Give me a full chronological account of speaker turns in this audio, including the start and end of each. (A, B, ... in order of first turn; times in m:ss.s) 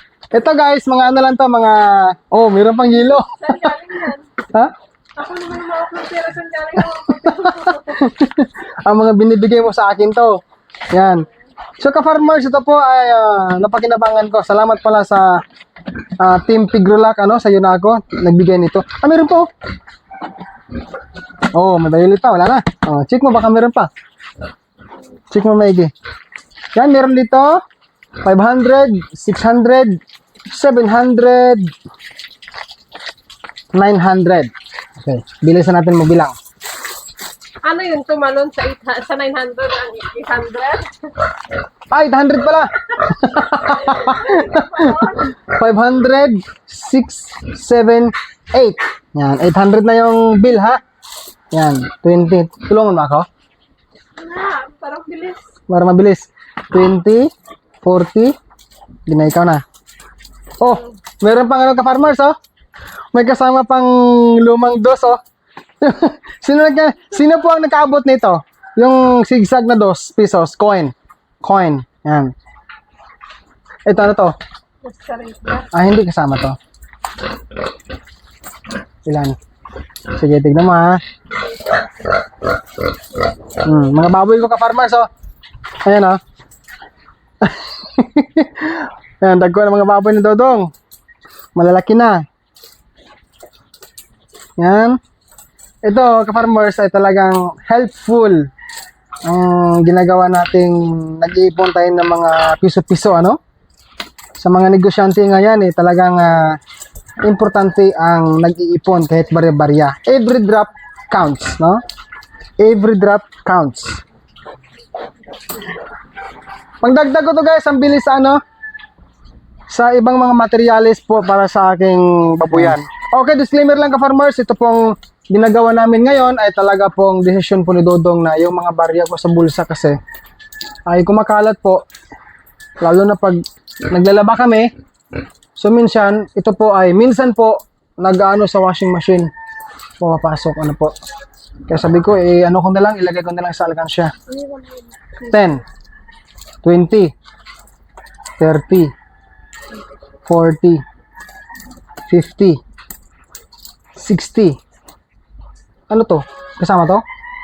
0:00.3-0:04.7 A
0:03.2-0:04.3 B
0:05.2-0:08.0 B
0:07.0-0:10.4 A
0:10.9-0:11.3 A
0:11.8-0:15.4 A
0:16.2-0:19.5 A
0:21.5-0:23.9 A
0:25.3-0:25.9 A
0:26.7-0:27.6 A
0:28.2-0:30.0 A
0:30.5-0:31.7 A
0:33.7-0:36.4 A
0:37.6-0:41.3 B
0:41.9-0:50.8 A
0:44.8-0:45.2 B
0:51.5-0:53.3 A
0:54.2-0:55.4 B
0:55.7-0:57.3 A
0:57.8-0:58.4 A
0:59.1-0:59.6 A
1:00.6-1:02.4 A
1:03.1-1:05.2 A
1:05.8-1:12.3 A
1:13.9-1:14.4 A
1:14.9-1:15.7 B
1:15.7-1:16.6 A
1:19.0-1:19.4 A
1:20.1-1:21.0 A
1:23.6-1:25.1 A
1:25.8-1:26.2 A
1:27.4-1:30.7 A
1:31.6-1:32.2 A
1:34.6-1:35.0 A
1:35.8-1:38.5 A
1:39.3-1:43.4 A
1:44.4-1:46.6 A
1:47.2-1:51.8 A
1:52.6-1:54.0 A
1:56.8-1:58.4 A
1:59.7-2:10.0 A
2:10.9-2:11.8 A
2:12.8-2:14.7 A
2:15.6-2:19.3 A
2:20.0-2:21.0 A
2:21.7-2:24.1 A
2:24.3-2:25.3 B
2:25.2-2:25.6 A
2:26.6-2:27.1 A
2:28.4-2:28.9 A
2:30.3-2:30.8 A
2:32.1-2:32.6 A
2:34.0-2:34.6 A
2:35.9-2:37.0 A